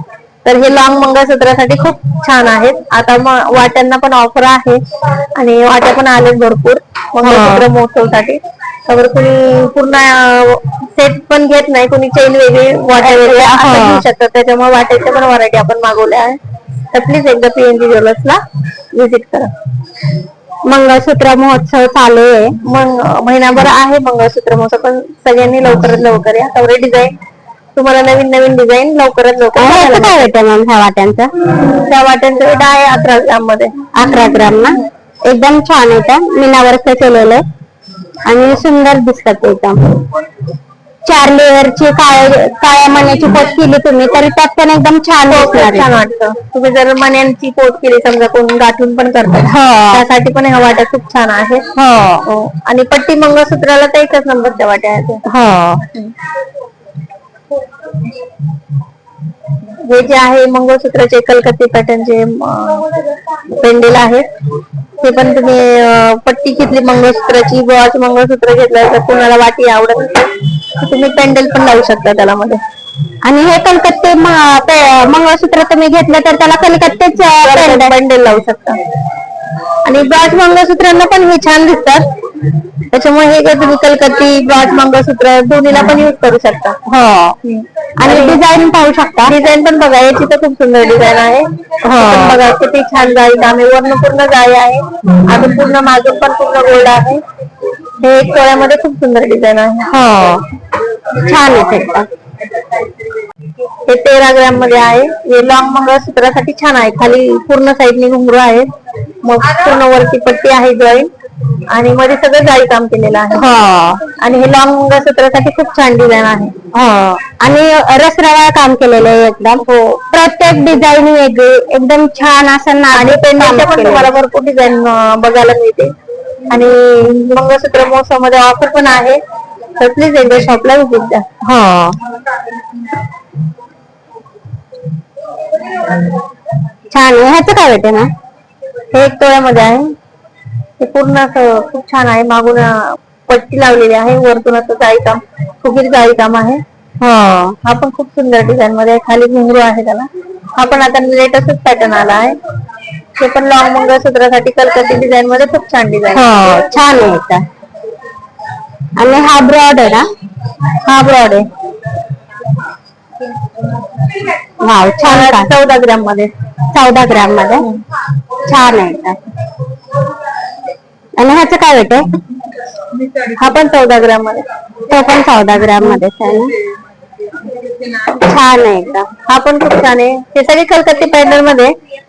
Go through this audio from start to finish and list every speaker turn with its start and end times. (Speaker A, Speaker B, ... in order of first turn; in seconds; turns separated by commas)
Speaker A: 0.5-4.8, Speaker A: 5.3-16.4, Speaker B: 7.2-7.7, Speaker B: 13.0-14.1, Speaker A: 16.9-18.4, Speaker A: 18.9-19.5, Speaker B: 20.7-22.5, Speaker A: 22.6-27.1, Speaker A: 27.8-30.3, Speaker B: 29.6-31.3, Speaker A: 31.6-33.7, Speaker B: 33.9-37.4, Speaker B: 38.3-39.8, Speaker B: 41.1-45.9, Speaker A: 45.3-51.7, Speaker B: 49.5-50.0, Speaker B: 51.8-52.3, Speaker A: 52.3-55.2, Speaker B: 55.3-55.8, Speaker A: 59.8-62.9, Speaker A: 63.6-64.3, Speaker A: 65.0-72.6, Speaker B: 73.2-77.9, Speaker A: 77.4-78.8, Speaker A: 79.8-82.0, Speaker A: 82.9-86.8, Speaker B: 86.9-87.3, Speaker A: 87.4-88.4, Speaker B: 88.0-89.3, Speaker A: 89.3-97.2, Speaker B: 91.9-92.4, Speaker A: 98.0-99.9, Speaker B: 99.9-100.4, Speaker B: 101.2-102.1, Speaker A: 103.9-108.7, Speaker A: 109.2-111.1, Speaker A: 111.7-113.5, Speaker B: 113.3-114.1, Speaker A: 114.1-116.5, Speaker B: 116.7-124.1, Speaker A: 119.6-120.0, Speaker A: 122.9-125.9, Speaker A: 126.5-129.2, Speaker A: 129.8-131.3, Speaker B: 131.4-132.0, Speaker B: 136.9-138.1, Speaker A: 138.9-139.9, Speaker A: 140.8-146.6, Speaker B: 147.0-147.6, Speaker A: 147.6-152.4, Speaker A: 153.2-156.2, Speaker B: 156.1-157.4, Speaker B: 159.0-160.1, Speaker A: 160.8-161.5, Speaker B: 164.6-165.5, Speaker A: 165.0-166.3, Speaker B: 166.7-167.7, Speaker B: 168.4-169.2, Speaker B: 171.2-172.0, Speaker A: 173.3-174.4, Speaker B: 174.9-176.5, Speaker B: 178.2-179.1, Speaker A: 179.3-181.7